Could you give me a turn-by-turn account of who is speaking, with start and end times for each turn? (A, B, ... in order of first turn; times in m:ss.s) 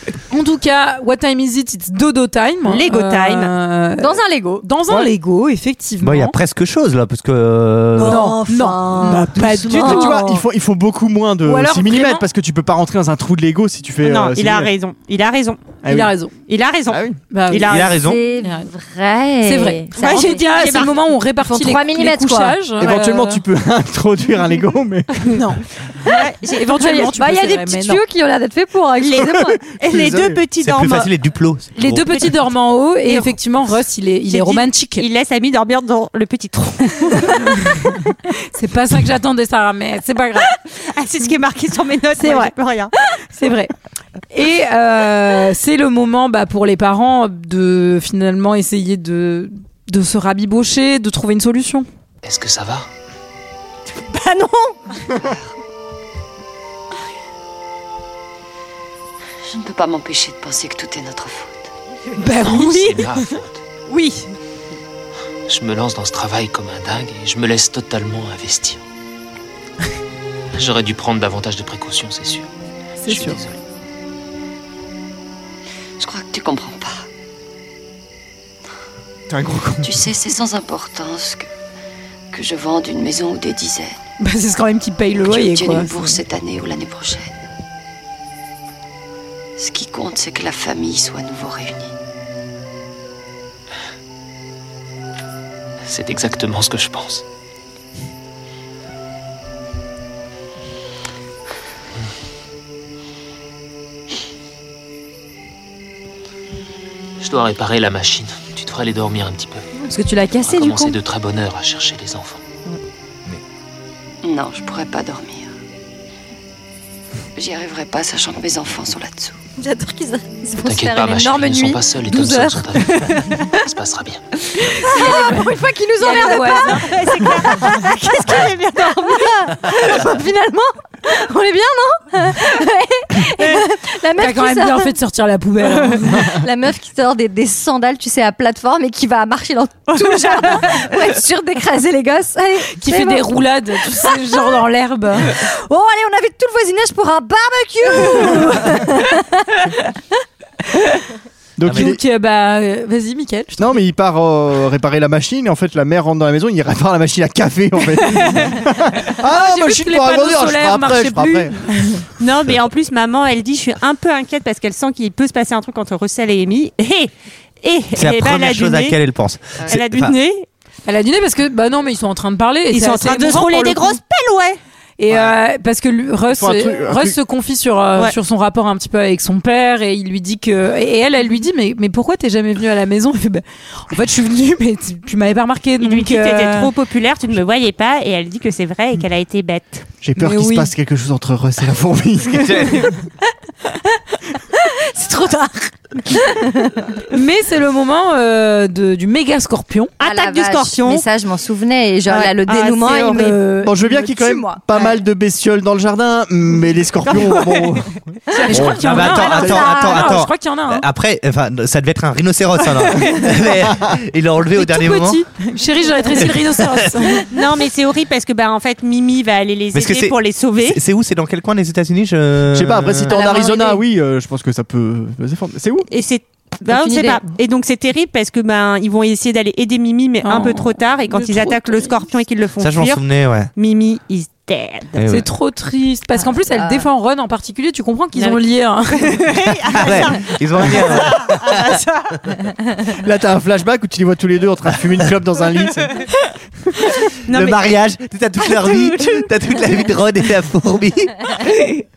0:00.3-0:06.4 A
0:02.7-0:03.5 B
0:04.0-0:04.6 C
0:06.0-0:08.4 D
0:07.9-0:10.4 C
0:08.0-0:10.3 A
0:09.0-0:14.7 E
0:11.4-0:12.2 A
0:14.0-0:15.8 B
0:15.8-0:16.1 E
0:15.9-0:16.3 A
0:16.5-0:18.0 B
0:16.9-0:17.2 E
0:17.3-0:17.7 A
0:17.6-0:18.2 D
0:18.0-0:22.6 C
0:18.4-0:18.7 A
0:19.4-0:23.4 A
0:20.0-0:20.9 B
0:22.8-0:25.4 E
0:25.2-0:25.6 A
0:26.1-0:26.9 B
0:26.5-0:28.0 A
0:26.8-0:29.6 C
0:29.0-0:31.1 B
0:29.3-0:30.4 E
0:30.6-0:32.3 D
0:31.8-0:35.0 A
0:34.3-0:37.8 B
0:37.4-0:40.5 A
0:40.8-0:42.9 B
0:42.2-0:42.5 A
0:43.2-0:43.7 A
0:44.3-0:51.9 A
0:52.2-0:52.9 F
0:54.0-0:54.7 B
0:59.5-1:01.7 G
1:02.1-1:03.1 A
1:02.4-1:03.6 F
1:05.5-1:08.8 F
1:10.5-1:12.5 F
1:13.0-1:13.4 A
1:13.0-1:13.6 F
1:16.0-1:17.1 G
1:19.3-1:19.9 E
1:19.8-1:21.5 G
1:22.3-1:24.0 G
1:24.2-1:26.2 A
1:25.3-1:27.3 G
1:29.6-1:31.9 G
1:35.8-1:37.2 F
1:47.2-1:49.6 F
1:49.8-1:50.9 C
1:50.4-1:52.4 F
1:54.2-1:55.5 G
1:57.4-1:59.4 G
1:59.6-2:03.1 C
2:00.6-2:04.2 F
2:04.7-2:06.9 A
2:04.8-2:14.9 C
2:06.1-2:09.7 B
2:14.2-2:16.3 A
2:16.0-2:23.4 C
2:19.9-2:20.7 B
2:22.8-2:25.3 A
2:24.0-2:24.6 C
2:25.2-2:29.5 C
2:28.1-2:28.6 A
2:30.7-2:31.0 A
2:31.6-2:32.0 E
2:31.6-2:31.9 D
2:31.7-2:33.8 A
2:33.6-2:41.6 E
2:39.2-2:42.0 A
2:42.2-2:47.1 B
2:47.6-2:49.0 B
2:48.0-2:50.1 D
2:49.7-2:50.4 B
2:50.9-2:54.0 A
2:52.7-2:54.6 B
2:55.0-3:06.7 A
2:55.1-2:55.4 E
2:56.3-2:57.2 E
3:05.8-3:09.9 B
3:10.0-3:12.9 E
3:10.2-3:10.7 A
3:12.4-3:12.8 D
3:14.5-3:16.8 C
3:17.1-3:19.9 A
3:20.0-3:21.0 B
3:20.0-3:24.9 C
3:22.1-3:23.3 B
3:22.9-3:23.7 A
3:23.6-3:27.9 E
3:28.3-3:28.6 C
3:28.3-3:30.8 A
3:28.5-3:35.2 D
3:29.1-3:30.0 C
3:29.4-3:29.6 E
3:34.6-3:37.3 A
3:36.2-3:36.8 D
3:37.3-3:40.8 B
3:39.7-3:43.2 D
3:42.5-3:45.9 E
3:43.1-3:43.8 C
3:45.9-3:53.0 B
3:46.7-3:47.2 C
3:50.2-3:51.9 A
3:52.6-3:53.5 D
3:53.6-3:55.0 B
3:55.0-3:55.3 D
3:55.1-3:59.3 A
3:56.2-3:56.9 C
3:58.2-3:58.4 B
3:58.9-4:02.3 B
3:59.7-4:01.8 D
4:02.8-4:06.0 E
4:07.2-4:07.7 B
4:07.3-4:11.6 D
4:08.4-4:09.2 B